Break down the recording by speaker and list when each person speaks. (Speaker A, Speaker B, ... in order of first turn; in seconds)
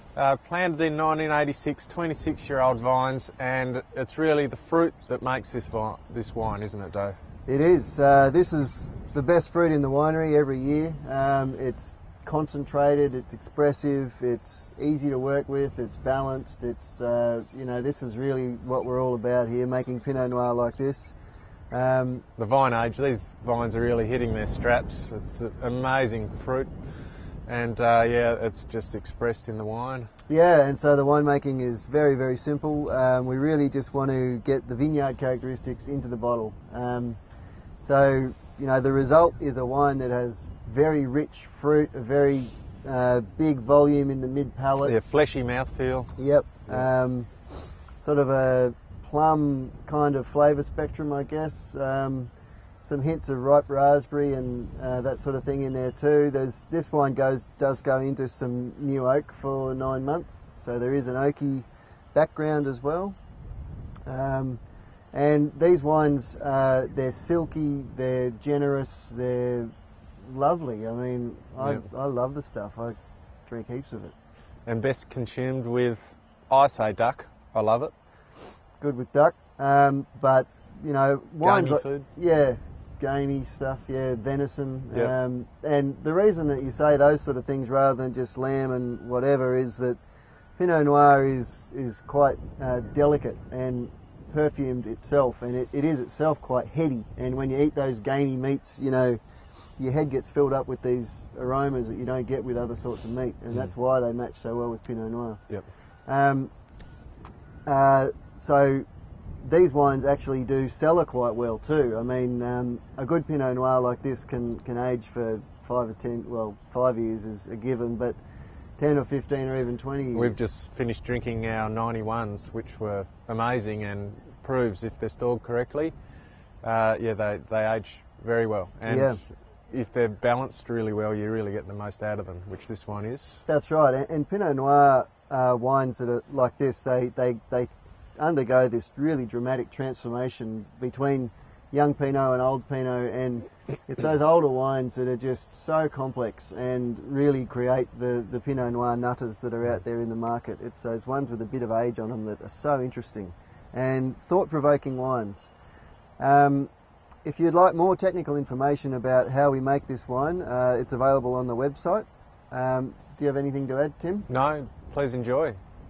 Speaker A: 0.1-7.1, 22.4-26.7, 27.5-30.1, 44.8-46.1, 74.7-77.9, 81.4-82.1, 120.1-125.9, 126.6-133.4, 164.3-165.6
Speaker B: 7.5-21.1, 21.7-22.2, 30.3-37.2, 37.8-44.9, 46.2-47.3, 47.9-63.2, 64.1-64.6, 65.1-74.1, 78.8-90.0, 90.6-99.2, 99.8-105.5, 106.1-106.5, 107.7-108.9, 109.4-118.2, 118.8-120.3, 128.9-129.2, 133.5-155.5, 156.2-156.7, 157.2-164.3